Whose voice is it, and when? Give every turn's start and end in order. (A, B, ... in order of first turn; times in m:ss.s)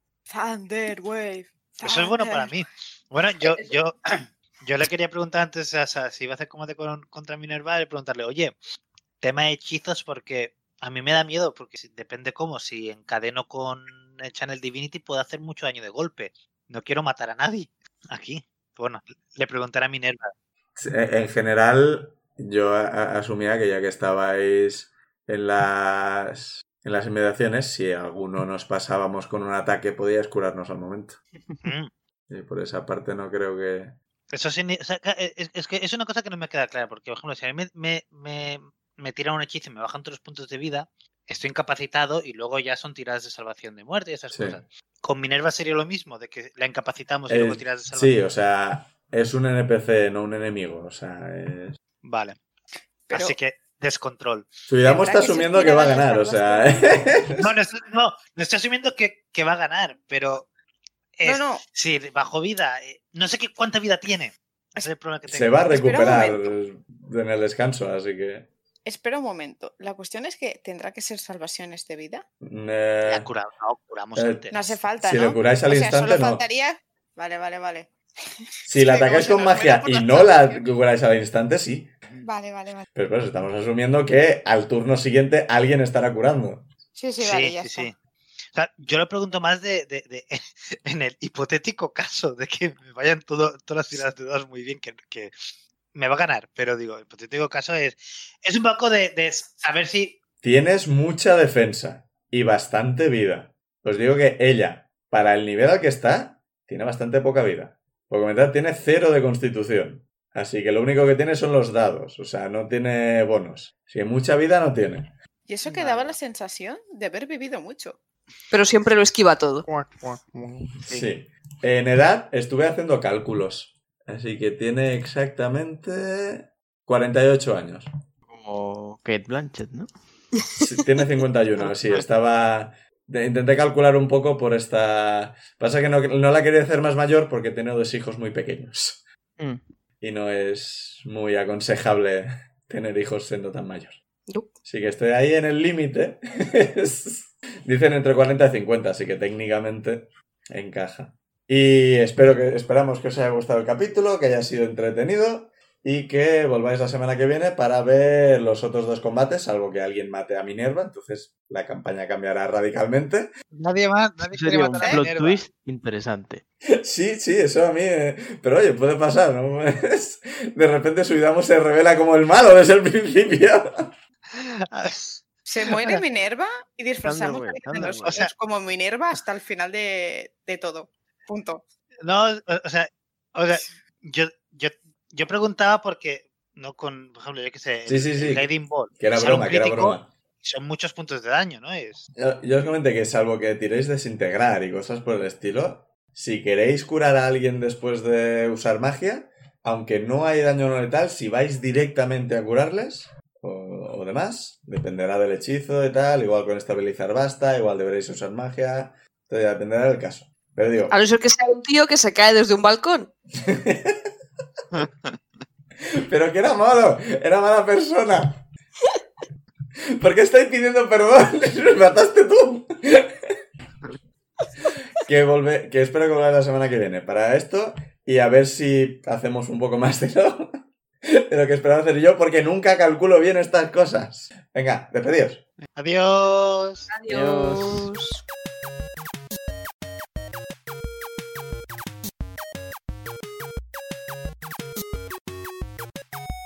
0:00.3-0:02.5 A
0:01.8-0:08.5 B
0:09.2-0:20.3 B
0:20.8-0:31.2 C
0:31.6-0:31.9 B
0:32.3-0:34.0 C
0:34.3-0:48.1 B
0:44.3-0:44.6 C
0:47.3-0:51.8 C
0:52.0-0:52.4 B
0:53.1-0:53.4 A
0:53.1-0:54.5 B
0:54.7-0:57.5 C
0:54.8-0:57.1 A
0:57.4-1:00.5 B
1:01.2-1:05.6 B
1:01.2-1:01.6 A
1:05.3-1:08.5 C
1:05.7-1:06.6 A
1:08.8-1:12.2 A
1:12.4-1:13.3 C
1:13.0-1:14.6 B
1:14.2-1:14.4 C
1:14.5-1:17.9 A
1:15.0-1:16.4 C
1:18.6-1:20.7 A
1:18.7-1:21.9 C
1:22.2-1:22.9 A
1:22.9-1:26.7 C
1:27.0-1:27.9 A
1:27.2-1:28.0 B
1:28.5-1:40.2 B
1:40.4-1:55.1 C
1:55.5-1:58.0 A
1:55.7-1:56.2 B
1:58.5-1:59.7 D
2:00.8-2:07.9 C
2:08.3-2:09.9 E
2:10.6-2:19.0 C
2:20.0-2:24.0 C
2:24.6-2:43.3 C
2:43.5-2:45.4 B
2:44.3-2:46.4 E
2:46.8-2:53.9 C
2:54.3-2:56.0 B
2:55.5-3:01.6 A
2:57.0-2:58.2 E
2:57.8-2:58.3 B
3:02.0-3:12.0 B
3:07.9-3:10.1 C
3:12.2-3:31.0 C
3:30.9-3:33.1 D
3:33.4-3:34.0 C
3:36.0-3:38.4 C
3:40.0-3:43.4 C
3:44.9-3:50.5 C
3:51.1-3:55.4 C
3:55.7-3:56.9 B
3:56.9-3:58.2 D
3:57.1-3:57.9 E